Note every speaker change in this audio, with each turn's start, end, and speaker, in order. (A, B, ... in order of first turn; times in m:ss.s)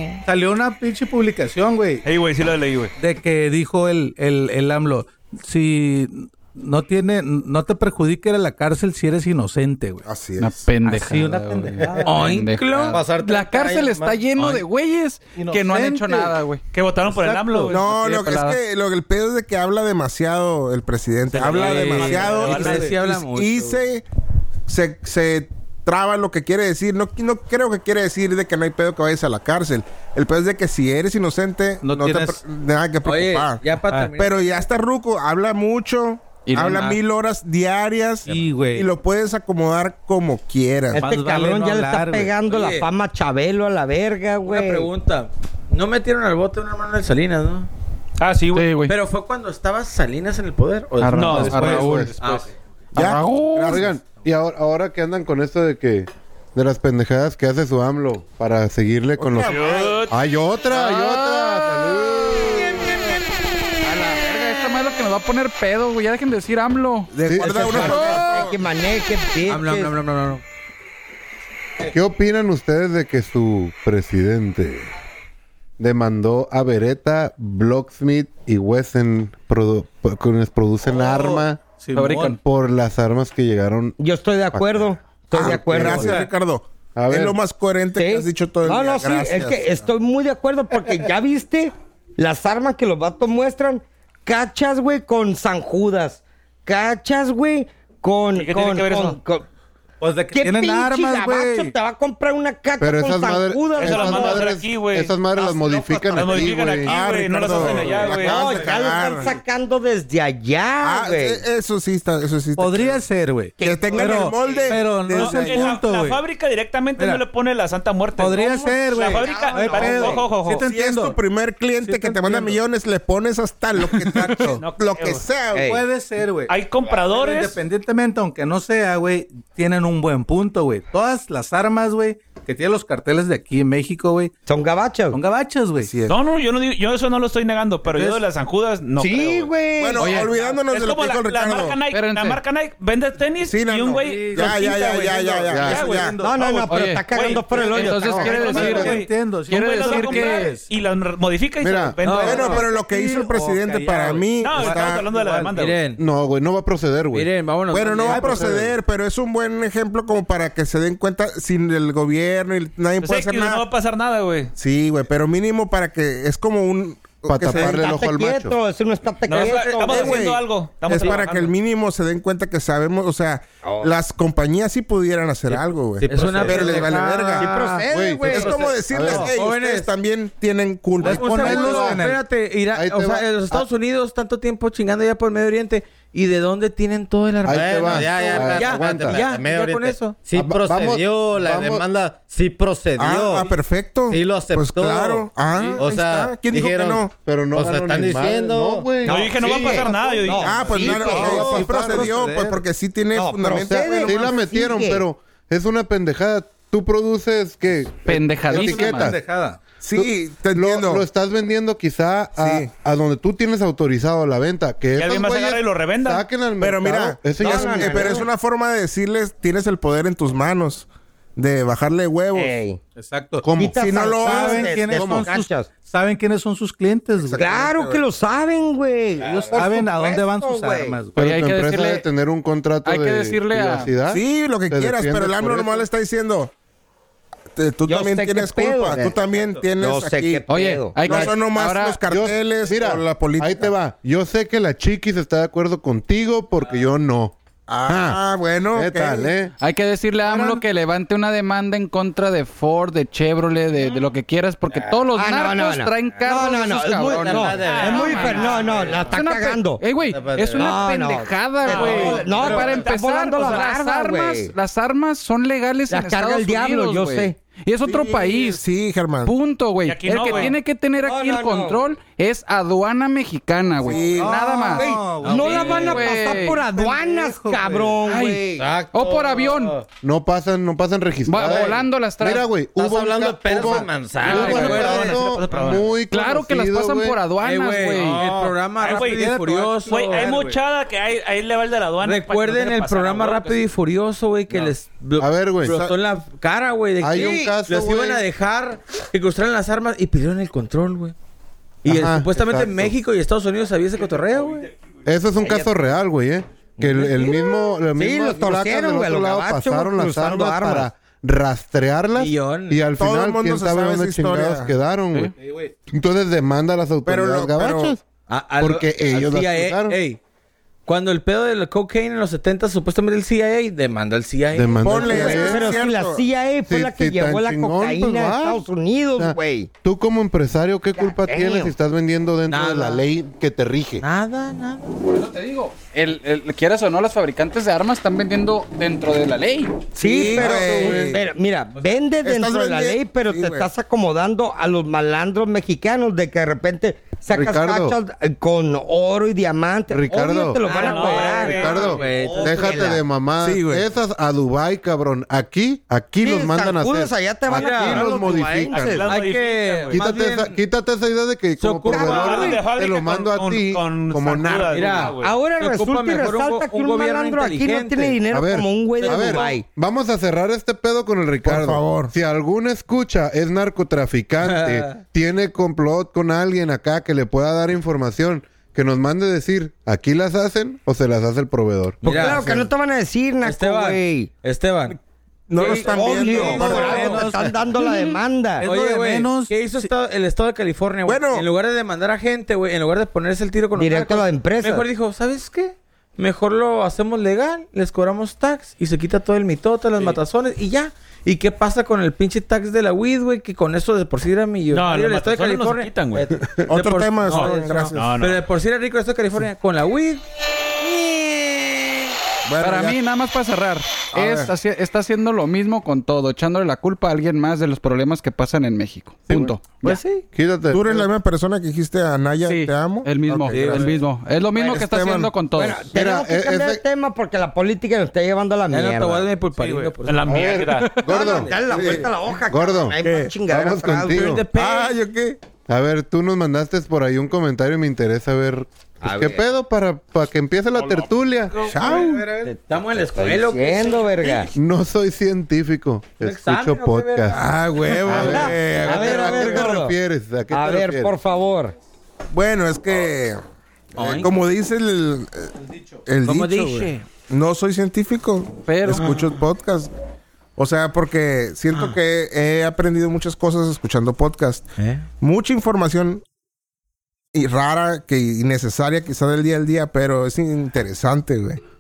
0:00.3-0:02.0 A
0:02.0-0:02.9 B
0:03.0-0:10.1 A
0:10.1-0:10.6 C
0:10.4-0:16.6 D
0:10.8-0:12.3 A
0:12.0-0:13.0 E
0:12.9-0:14.2 F
0:14.4-0:14.6 E
0:15.4-0:16.4 A
0:16.7-0:17.8 B
0:17.1-0:17.8 A
0:17.7-0:24.0 C
0:17.7-0:18.6 D
0:21.3-0:23.0 B
0:21.4-0:23.8 E
0:22.1-0:23.1 A
0:24.7-0:41.1 C
0:31.8-0:32.4 A
0:33.0-0:34.6 E
0:33.9-0:34.1 A
0:36.4-0:37.0 D
0:38.3-0:38.9 A
0:40.9-0:44.9 G
0:41.0-0:42.3 A
0:42.4-0:42.9 E
0:44.4-0:47.7 E
0:48.2-0:48.7 B
0:48.6-0:48.9 D
0:48.8-0:52.6 E
0:51.0-0:52.4 D
0:51.2-0:51.8 B
0:51.3-0:52.4 A
0:51.6-0:52.1 H
0:53.0-0:53.9 D
0:53.0-0:54.0 C
0:53.6-1:03.0 H
0:59.2-1:00.0 C
0:59.4-1:00.2 B
1:00.7-1:01.9 D
1:03.8-1:08.2 D
1:07.1-1:08.6 C
1:07.2-1:07.8 H
1:07.6-1:10.0 G
1:09.4-1:10.4 E
1:11.9-1:14.9 H
1:15.8-1:21.6 H
1:21.8-1:22.4 A
1:22.0-1:22.4 D
1:22.4-1:24.0 H
1:24.0-1:26.2 G
1:24.5-1:26.2 H
1:25.4-1:29.7 C
1:25.9-1:26.3 A
1:27.0-1:27.4 H
1:28.0-1:39.4 G
1:38.4-1:39.2 B
1:40.0-1:41.7 A
1:40.3-1:44.5 G
1:42.8-1:47.0 H
1:43.8-1:45.2 B
1:46.1-1:48.7 B
1:46.8-1:49.4 C
1:47.6-1:51.4 G
1:47.6-1:48.0 A
1:50.8-1:53.0 C
1:52.6-1:56.2 A
1:53.6-1:54.8 G
1:53.6-1:55.8 C
1:55.1-2:00.6 B
1:57.0-1:57.2 A
1:58.2-2:01.2 A
1:58.3-2:00.3 G
2:00.6-2:05.8 C
2:01.8-2:02.6 A
2:03.9-2:04.7 A
2:04.6-2:05.2 B
2:05.5-2:14.3 A
2:06.5-2:07.6 B
2:14.5-2:15.2 G
2:15.1-2:16.0 A
2:15.8-2:16.1 C
2:16.1-2:19.5 B
2:17.9-2:18.2 A
2:19.0-2:20.2 G
2:19.8-2:21.8 C
2:20.0-2:20.3 D
2:20.2-2:20.5 A
2:20.7-2:32.7 B
2:21.9-2:22.4 D
2:23.4-2:26.2 C
2:23.9-2:26.4 A
2:25.5-2:25.8 H
2:26.2-2:28.8 G
2:26.7-2:27.0 D
2:27.6-2:30.5 D
2:28.1-2:30.7 A
2:31.6-2:32.0 H
2:32.0-2:32.7 E
2:32.2-2:35.1 C
2:32.2-2:35.5 A
2:34.4-2:35.8 B
2:35.5-2:36.0 E
2:36.0-2:37.3 H
2:37.1-2:38.5 E
2:37.7-2:43.6 C
2:38.0-2:38.8 A
2:43.0-2:44.5 B
2:44.6-2:47.9 C
2:47.3-2:48.6 H
2:47.5-2:50.3 G
2:49.3-2:51.5 B
2:49.9-2:57.5 C
2:53.6-2:53.9 G
2:56.0-2:57.8 E
2:56.0-2:56.9 F
2:56.5-2:58.6 G
2:57.4-2:58.3 A
2:57.9-2:59.3 H
2:58.2-3:01.9 C
2:58.3-2:59.9 E
3:01.0-3:02.2 A
3:01.0-3:10.2 E
3:01.4-3:02.0 H
3:02.7-3:03.7 H
3:07.4-3:09.2 H
3:07.5-3:13.5 F
3:10.3-3:11.9 H
3:13.0-3:17.1 C
3:14.1-3:18.9 F
3:17.2-3:19.3 H
3:19.0-3:22.1 G
3:19.0-3:20.9 B
3:19.4-3:24.3 C
3:20.6-3:22.6 A
3:21.0-3:22.1 H
3:23.2-3:25.0 G
3:23.7-3:29.2 H
3:28.1-3:29.2 D
3:28.5-3:29.6 A
3:29.8-3:31.0 C
3:30.0-3:38.3 H
3:32.4-3:32.7 C
3:35.0-3:36.2 B
3:36.6-3:42.5 C
3:37.4-3:38.3 G
3:42.4-3:42.8 G
3:43.0-3:43.5 A
3:43.4-3:44.0 H
3:43.6-3:45.7 G
3:43.7-3:44.8 C
3:44.2-3:47.5 A
3:44.8-3:45.3 H
3:47.2-3:48.0 C
3:47.3-3:51.0 G
3:49.2-3:51.2 A
3:51.2-3:55.9 H
3:51.2-3:52.0 D
3:52.8-3:53.9 D
3:54.1-3:56.5 C
3:57.6-4:00.4 C
3:57.9-3:59.2 G
3:59.8-4:01.3 G
4:00.5-4:02.0 D
4:01.0-4:03.7 C
4:02.1-4:07.4 H
4:07.7-4:09.3 C
4:07.9-4:08.2 H
4:08.8-4:09.5 H
4:09.6-4:28.6 D
4:14.7-4:15.1 F
4:15.2-4:19.8 G
4:17.0-4:19.2 F
4:17.6-4:19.0 B
4:18.7-4:19.0 E
4:20.0-4:20.8 F
4:20.6-4:24.5 G
4:21.6-4:23.7 B
4:21.9-4:22.7 F
4:25.9-4:27.4 G
4:27.8-4:29.4 C
4:29.2-4:34.9 D
4:29.8-4:30.6 B
4:31.0-4:31.9 G
4:33.8-4:34.4 C
4:33.9-4:38.7 G
4:34.2-4:38.0 A
4:35.2-4:36.1 E
4:35.4-4:36.6 D
4:38.0-4:39.8 D
4:38.5-4:39.8 F
4:40.0-4:47.2 H
4:41.3-4:42.5 D
4:41.4-4:41.8 F
4:42.8-4:45.0 F
4:44.1-4:45.7 E
4:44.2-4:45.9 B
4:44.3-4:44.7 D
4:46.1-4:48.2 D
4:47.4-4:50.5 E
4:48.0-4:48.5 F
4:48.2-4:48.5 A
4:48.8-4:49.4 B
4:49.0-4:50.6 A
4:49.9-4:53.7 B
4:52.0-5:01.2 E
4:55.2-4:55.9 H
4:57.0-4:58.2 H
5:01.8-5:04.7 E
5:01.8-5:02.9 H
5:05.0-5:15.3 H
5:05.4-5:05.8 G
5:06.8-5:07.3 E
5:07.9-5:10.9 G
5:12.1-5:12.9 E
5:12.9-5:14.7 C
5:15.4-5:15.7 A
5:15.9-5:18.0 H
5:17.0-5:18.0 C
5:18.3-5:20.2 E
5:18.6-5:20.0 H
5:20.9-5:25.5 E
5:24.5-5:25.8 H
5:24.8-5:26.2 C
5:25.0-5:29.7 G
5:26.7-5:28.6 H
5:29.2-5:34.0 H
5:31.0-5:31.7 G
5:32.5-5:33.0 E
5:34.0-5:35.0 E
5:35.1-5:39.9 D
5:40.0-5:41.2 C
5:40.0-5:53.0 G
5:40.2-5:41.2 H
5:42.2-5:43.7 C
5:47.3-5:48.0 H
5:49.9-5:50.6 H
5:50.6-5:53.0 E
5:50.6-5:52.1 B
5:51.5-5:59.0 H
5:53.4-5:53.9 C
5:56.2-5:59.1 G
5:57.5-5:58.3 E
5:58.7-6:00.0 B
5:59.0-6:00.6 E
5:59.9-6:05.1 H
6:01.6-6:02.5 E
6:01.9-6:02.6 G
6:02.1-6:05.3 B
6:04.7-6:08.2 E
6:05.2-6:09.6 G
6:08.3-6:22.7 H
6:09.0-6:09.6 E
6:11.4-6:12.1 C
6:14.4-6:15.0 E
6:22.0-6:22.6 E
6:22.0-6:24.3 G
6:23.4-6:25.0 E
6:25.5-6:27.3 C
6:25.6-6:27.4 E
6:25.6-6:28.7 G
6:26.5-6:29.9 A
6:28.6-6:50.2 E
6:31.1-6:31.5 C
6:33.8-6:34.9 G
6:44.7-6:46.3 B
6:46.6-6:48.2 C
6:47.3-6:48.4 B
6:52.5-6:53.0 C
6:52.6-7:00.0 D
6:54.1-6:54.5 C
6:59.3-6:59.6 H
6:59.8-7:00.3 E
7:00.3-7:01.1 H
7:00.7-7:03.9 C
7:02.4-7:05.8 D
7:03.5-7:04.0 E
7:04.6-7:04.9 G
7:04.7-7:05.4 C
7:05.5-7:09.3 G
7:05.9-7:06.8 H
7:08.7-7:12.1 E
7:09.6-7:10.9 B
7:10.3-7:12.0 H
7:11.1-7:14.4 G
7:11.7-7:12.1 C
7:12.5-7:14.4 H
7:13.0-7:13.4 C
7:14.1-7:15.0 E
7:14.4-7:15.4 C
7:15.7-7:21.5 H
7:19.0-7:19.5 G
7:20.8-7:21.8 B
7:21.6-7:22.3 C
7:21.6-7:24.5 E
7:22.1-7:22.5 A
7:23.1-7:24.5 G
7:24.5-7:27.4 H
7:26.2-7:29.5 E
7:27.3-7:29.8 C
7:28.1-7:29.9 G
7:28.1-7:31.2 H
7:30.5-7:31.7 G
7:32.3-7:33.4 C
7:34.0-7:34.4 E
7:34.0-7:35.5 C
7:35.6-7:36.0 A
7:36.1-7:39.9 C
7:36.2-7:37.1 E
7:38.7-7:39.2 D
7:38.9-7:39.4 E
7:40.6-7:44.7 C
7:44.8-7:45.0 E
7:45.2-7:46.2 C
7:47.3-7:51.6 C